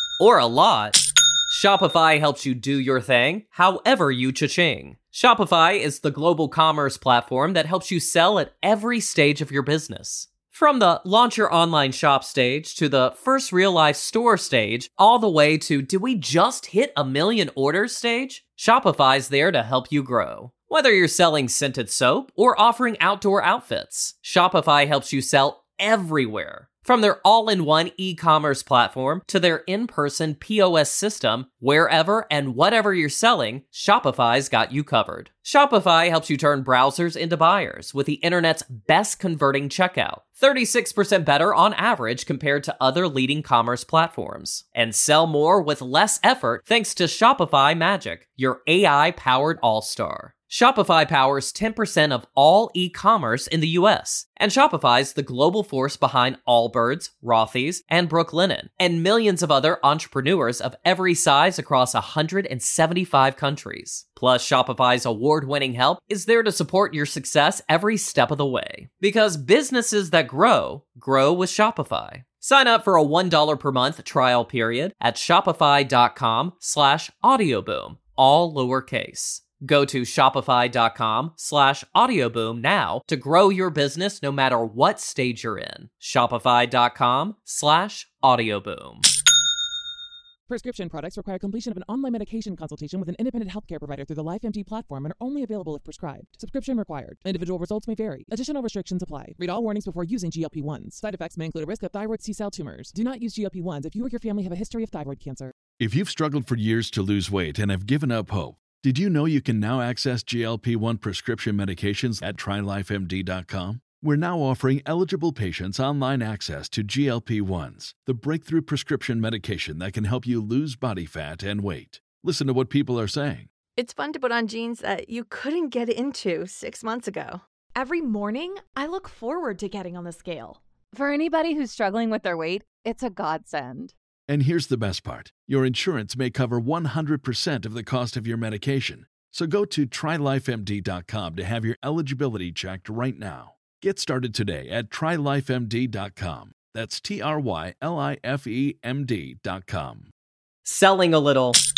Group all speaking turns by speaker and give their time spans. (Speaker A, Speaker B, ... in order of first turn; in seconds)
Speaker A: 0.2-89.1, 150.6-151.6
Speaker B: 90.5-105.5
Speaker C: 105.8-123.5, 134.3-150.1
Speaker D: 123.8-127.4
Speaker E: 127.7-130.6
Speaker F: 130.9-133.9